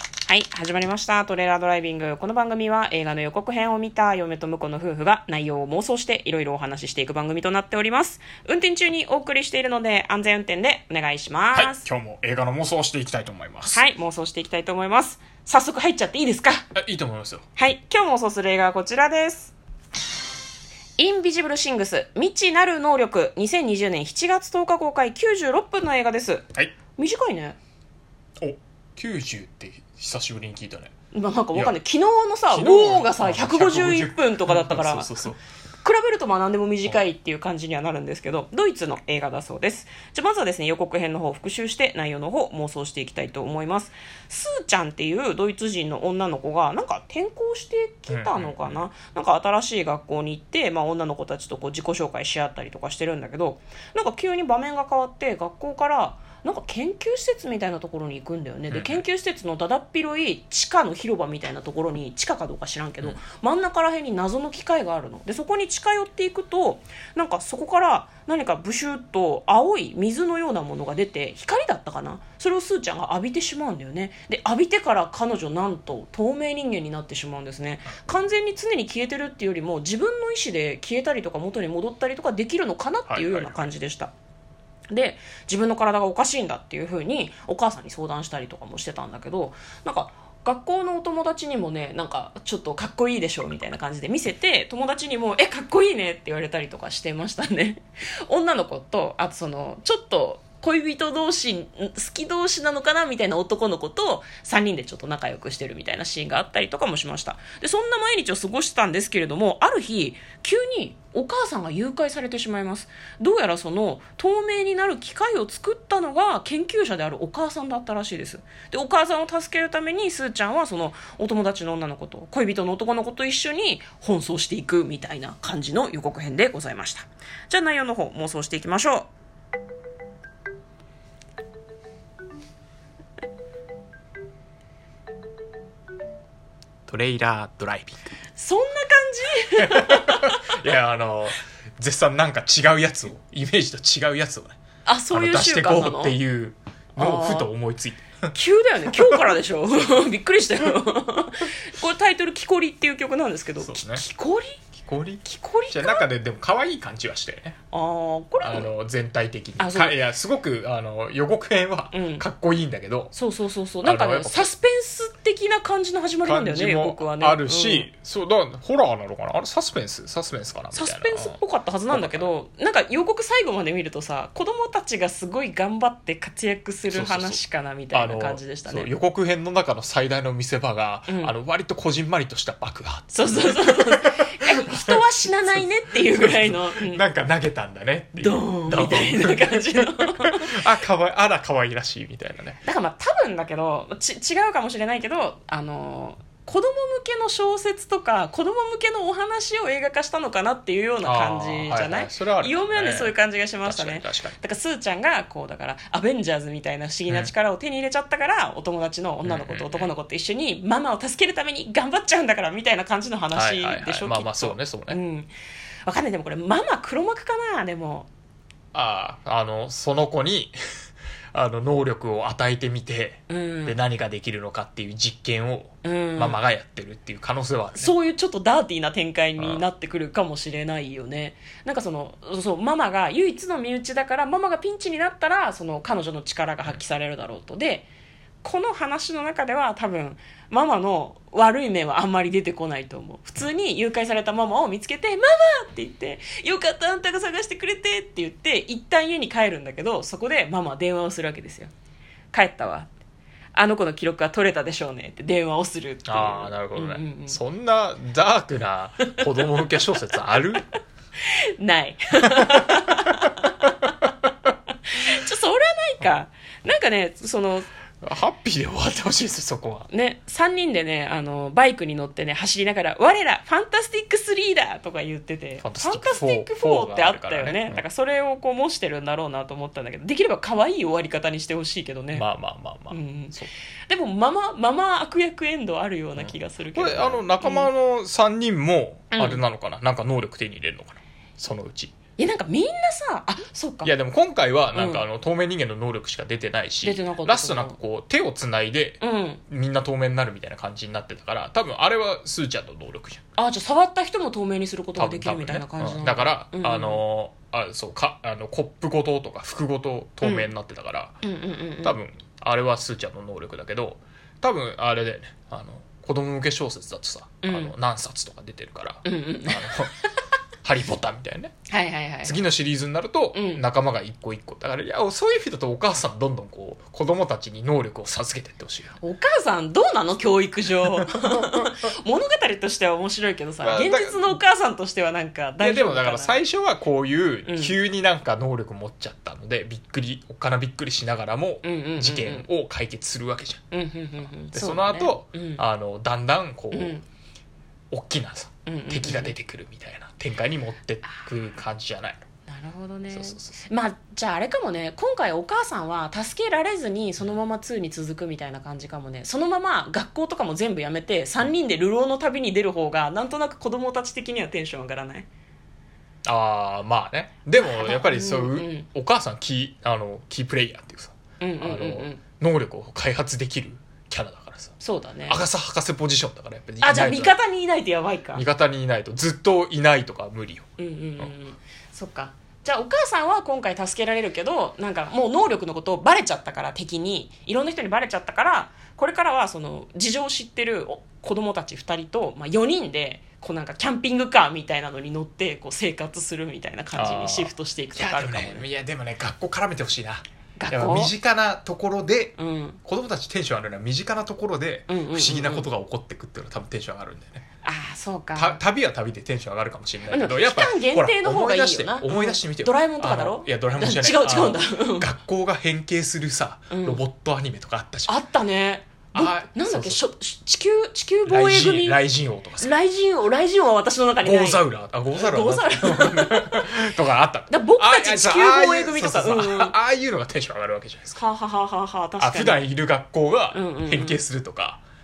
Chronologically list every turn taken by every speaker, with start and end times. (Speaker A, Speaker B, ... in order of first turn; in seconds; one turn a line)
Speaker A: 0.3-11.8
Speaker B: 11.5-13.8
Speaker A: 13.7-16.6
Speaker B: 16.7-17.4
Speaker A: 17.6-19.5
Speaker A: 21.0-27.6
Speaker B: 28.4-30.9
Speaker A: 31.1-35.1
Speaker B: 32.5-35.4
Speaker A: 35.8-84.1
Speaker B: 48.1-48.8
Speaker B: 58.7-59.0
Speaker B: 83.1-83.7
Speaker A: 84.9-129.1
Speaker B: 136.9-138.2
Speaker A: 138.3-140.4
Speaker B: 139.6-144.6
Speaker A: 144.8-146.2
Speaker B: 145.1-148.3
Speaker A: 147.0-147.5
Speaker A: 148.3-154.6
Speaker B: 153.6-154.0
Speaker B: 154.8-157.6
Speaker A: 155.2-156.0
Speaker A: 157.7-158.7
Speaker B: 158.4-163.1
Speaker A: 159.6-160.0
Speaker A: 161.9-162.2
Speaker A: 163.1-167.9
Speaker B: 163.8-164.5
Speaker B: 166.2-171.4
Speaker A: 170.7-178.9
Speaker B: 171.9-172.3
Speaker B: 176.9-177.4
Speaker B: 177.9-185.0
Speaker A: 181.1-181.3
Speaker A: 183.1-187.0
Speaker B: 186.0-192.6
Speaker A: 188.2-190.6
Speaker A: 192.6-215.3
Speaker B: 201.0-204.3
Speaker B: 209.2-209.9
Speaker B: 213.3-215.0
Speaker A: 215.8-218.1
Speaker B: 218.7-220.6
Speaker B: 221.3-227.9
Speaker A: 223.3-223.8
Speaker A: 225.8-226.4
Speaker A: 227.8-237.9
Speaker B: 229.4-229.6
Speaker A: 238.4-251.7
Speaker A: 252.3-252.9
Speaker A: 253.5-257.4
Speaker B: 256.1-260.6
Speaker A: 259.1-259.7
Speaker A: 261.2-264.1
Speaker B: 262.2-263.1
Speaker A: 264.8-267.7
Speaker B: 268.0-269.9
Speaker A: 269.9-282.2
Speaker B: 275.6-277.8
Speaker B: 282.1-283.5
Speaker A: 282.9-283.3
Speaker A: 283.9-287.7
Speaker B: 286.2-291.9
Speaker A: 289.1-289.4
Speaker A: 292.2-293.9
Speaker B: 293.8-303.2
Speaker A: 294.7-295.0
Speaker A: 296.8-297.8
Speaker A: 299.0-299.4
Speaker A: 303.4-307.0
Speaker B: 305.0-311.2
Speaker A: 310.2-310.5
Speaker A: 311.2-312.0
Speaker B: 311.8-319.9
Speaker A: 317.4-317.7
Speaker A: 319.0-319.7
Speaker B: 320.6-321.5
Speaker A: 321.7-322.4
Speaker B: 322.2-328.9
Speaker A: 323.3-323.6
Speaker A: 329.0-336.4
Speaker B: 330.9-331.6
Speaker B: 333.6-334.4
Speaker B: 335.6-343.6
Speaker A: 337.4-337.8
Speaker A: 341.6-342.5
Speaker A: 343.7-345.6
Speaker B: 344.5-347.0
Speaker A: 346.7-347.0
Speaker B: 347.9-352.2
Speaker A: 348.6-349.3
Speaker A: 352.5-365.2
Speaker B: 353.1-353.6
Speaker B: 366.2-374.7
Speaker A: 367.6-368.9
Speaker A: 371.4-372.2
Speaker A: 374.8-375.4
Speaker B: 375.3-377.4
Speaker A: 376.8-378.4
Speaker B: 378.3-380.7
Speaker A: 380.8-398.7
Speaker B: 396.9-407.4
Speaker A: 400.6-401.1
Speaker A: 402.4-402.8
Speaker A: 404.9-405.7
Speaker A: 407.6-408.6
Speaker B: 408.3-418.1
Speaker A: 410.1-415.1
Speaker A: 416.7-417.0
Speaker A: 418.1-422.0
Speaker B: 419.1-420.0
Speaker B: 421.3-422.7
Speaker A: 422.6-426.8
Speaker B: 424.2-431.2
Speaker A: 427.5-429.7
Speaker A: 431.1-432.6
Speaker B: 432.2-434.8
Speaker A: 433.5-434.2